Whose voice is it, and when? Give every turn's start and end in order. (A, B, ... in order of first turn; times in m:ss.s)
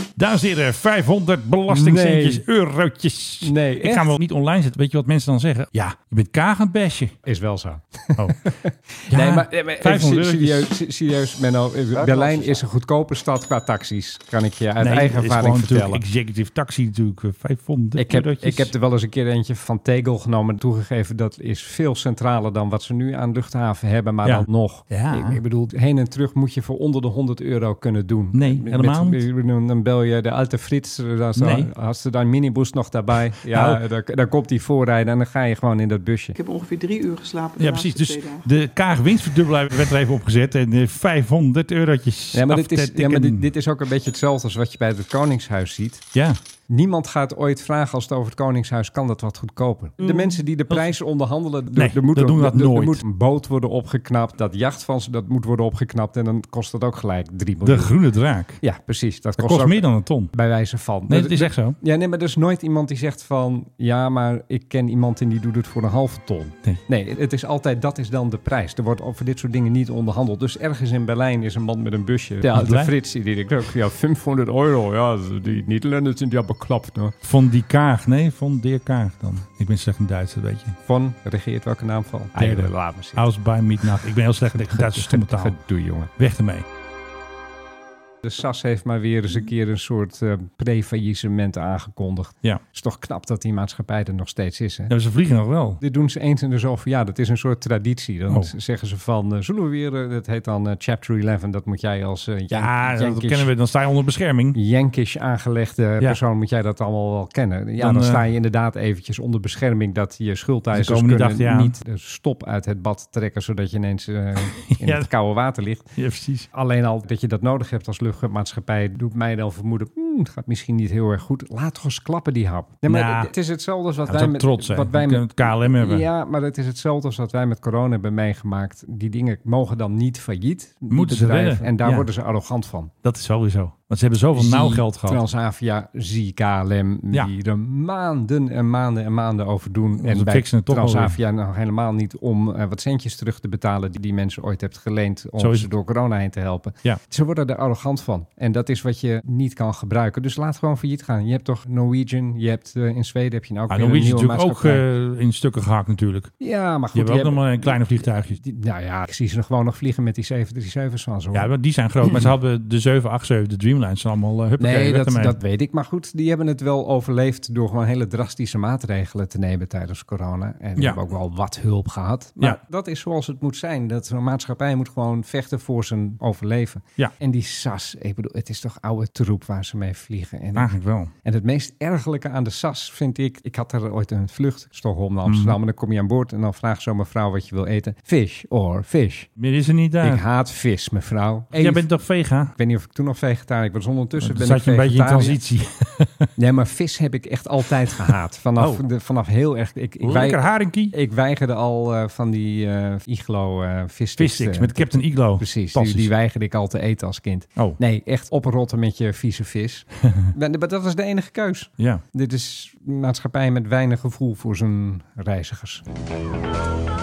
0:00.2-0:07.2 A
0:01.7-0:02.4 B
0:03.4-0:04.1 B
0:07.2-0:16.0 B
0:08.2-0:08.4 A
0:09.1-0:10.7 A
0:14.8-0:18.7 A
0:18.0-0:36.4 B
0:24.2-0:25.4 A
0:28.3-0:29.2 A
0:31.4-0:31.7 A
0:33.5-0:33.8 A
0:36.4-0:38.4 C
0:37.6-0:43.5 A
0:42.3-0:46.0 B
0:46.1-0:46.4 A
0:46.7-0:58.0 B
0:50.0-0:51.0 A
0:51.7-0:53.0 A
0:57.6-0:58.6 A
0:58.6-1:17.1 B
0:59.4-1:00.3 A
1:01.1-1:01.8 A
1:12.5-1:12.9 A
1:17.2-1:20.8 A
1:20.8-1:23.3 B
1:22.4-1:25.6 A
1:24.5-1:26.1 B
1:26.2-1:26.6 A
1:28.2-1:34.9 B
1:34.9-1:35.8 A
1:35.8-1:43.5 B
1:42.5-1:44.6 A
1:44.5-1:55.9 B
1:47.8-1:48.2 A
1:50.7-1:51.7 A
1:54.4-1:55.1 A
1:56.0-1:56.5 A
1:56.5-2:12.9 B
2:02.8-2:03.3 A
2:04.0-2:06.1 A
2:10.9-2:12.1 A
2:13.0-2:15.2 A
2:14.3-2:34.8 B
2:20.0-2:21.2 A
2:25.4-2:25.7 A
2:33.7-2:36.3 A
2:36.4-2:41.5 B
2:36.9-2:38.4 A
2:41.3-2:45.4 A
2:42.0-2:42.3 B
2:44.6-3:00.7 B
3:00.5-3:01.1 A
3:01.2-3:09.3 B
3:05.2-3:05.6 A
3:09.4-3:10.2 A
3:10.0-3:11.9 B
3:11.5-3:12.5 A
3:12.5-3:15.4 B
3:14.2-3:16.3 A
3:16.4-3:35.8 B
3:18.6-3:18.8 A
3:20.0-3:20.9 A
3:24.2-3:26.1 A